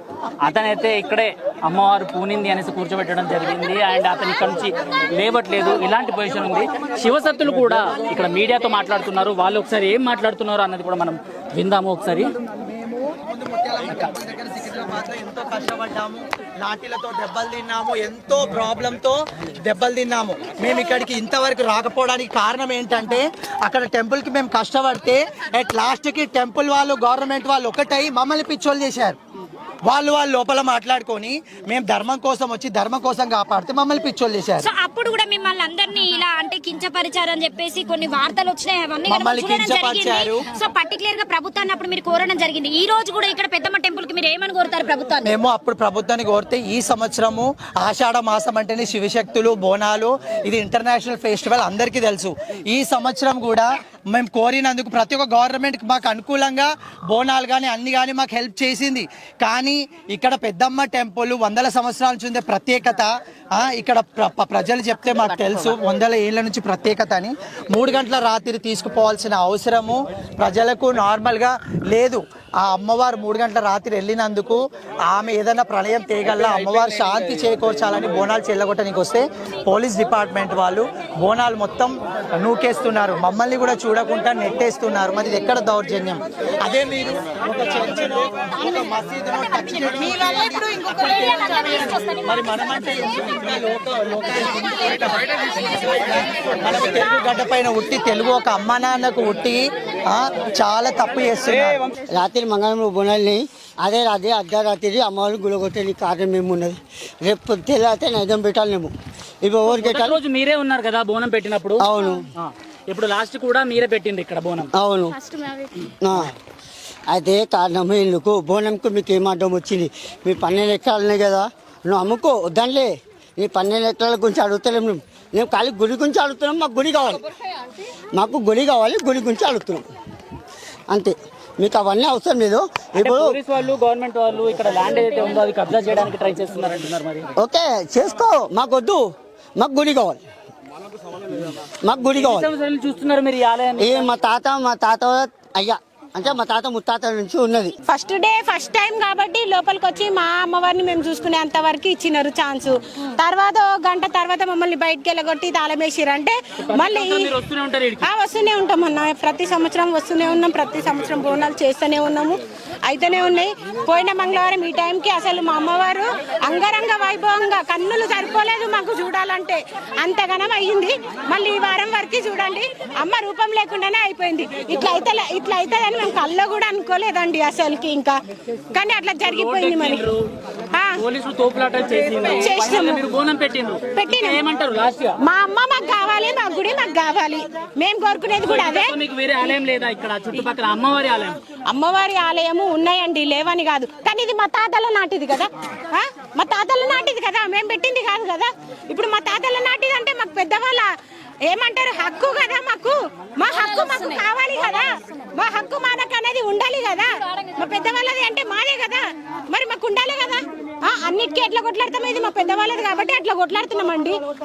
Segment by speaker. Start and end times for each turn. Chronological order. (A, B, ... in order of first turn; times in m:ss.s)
0:00.4-0:12.3 A
0:13.2-0:29.2 B
0:29.9-0:34.7 B
0:34.6-0:45.2 C
0:39.1-0:40.5 B
0:45.2-1:41.8 B
1:42.2-1:48.9 D
1:49.4-1:50.2 D
1:49.6-1:54.7 A
1:51.8-1:52.2 D
1:54.8-1:55.1 D
1:57.1-2:02.9 D
2:03.4-2:07.2 D
2:08.2-2:09.8 D
2:10.9-2:13.3 D
2:13.0-2:17.3 A
2:17.4-2:19.0 D
2:19.6-2:20.2 D
2:21.9-2:22.5 D
2:22.1-2:24.1 A
2:23.8-2:27.7 D
2:27.9-2:37.3 E
2:36.7-2:38.1 A
2:38.0-2:58.2 E
2:58.7-3:00.0 E
2:59.2-3:00.2 A
3:01.0-3:05.1 A
3:02.4-3:03.0 E
3:03.9-3:04.4 E
3:05.2-3:08.9 E
3:08.4-3:11.4 A
3:11.7-3:20.9 E
3:21.5-3:34.2 E